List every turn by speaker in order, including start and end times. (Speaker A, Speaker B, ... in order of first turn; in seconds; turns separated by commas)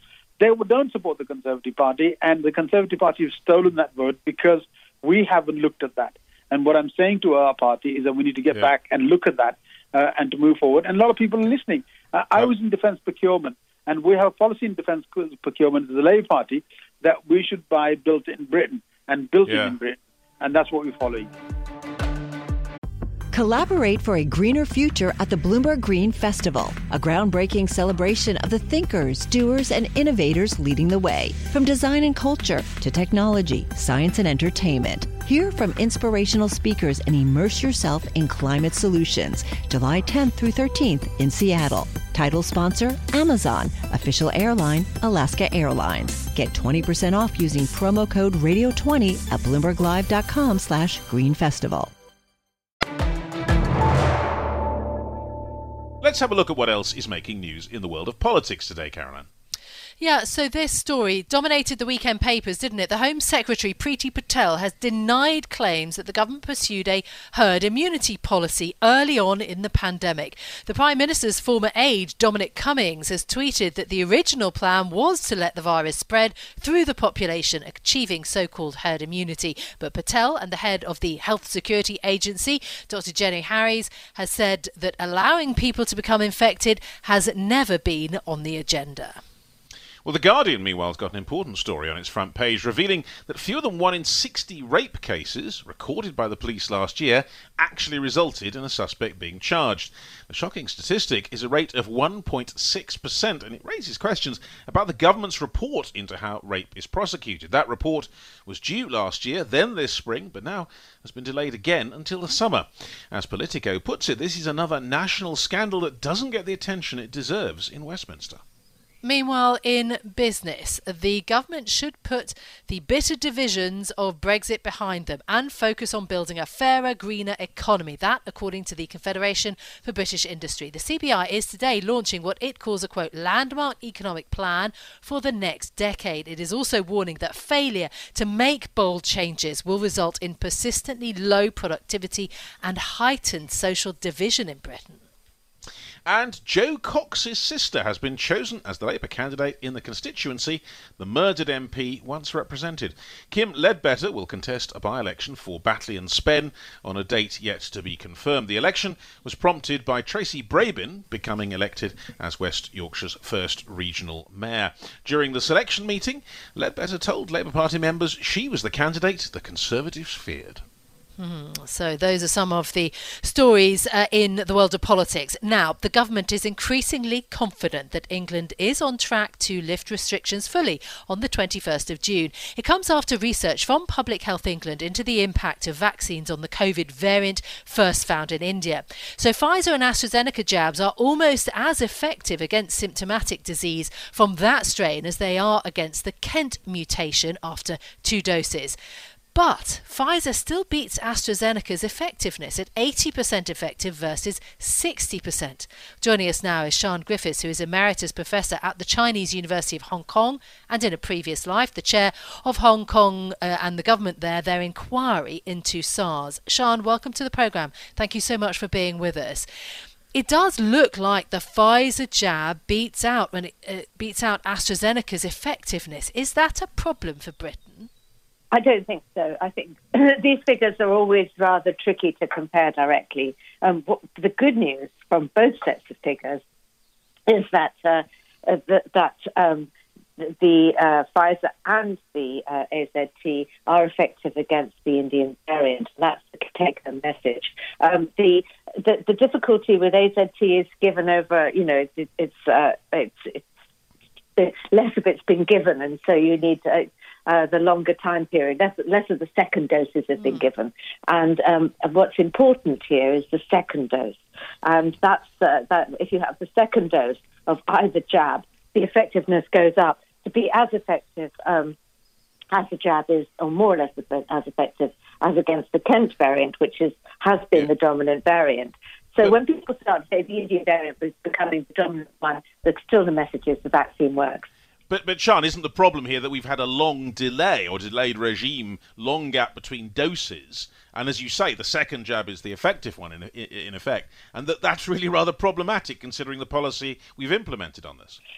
Speaker A: 0.4-21.3, Speaker B: 19.5-19.7, Speaker C: 23.3-51.9, Speaker B: 56.0-59.3, Speaker D: 60.0-89.2, Speaker B: 90.0-118.4, Speaker D: 119.0-145.0, Speaker B: 146.1-170.6, Speaker D: 171.2-198.8, Speaker D: 199.3-219.5, Speaker D: 220.1-227.9, Speaker E: 228.5-236.4, Speaker E: 237.3-253.4, Speaker E: 254.4-271.7, Speaker E: 272.5-284.5, Speaker B: 284.9-298.2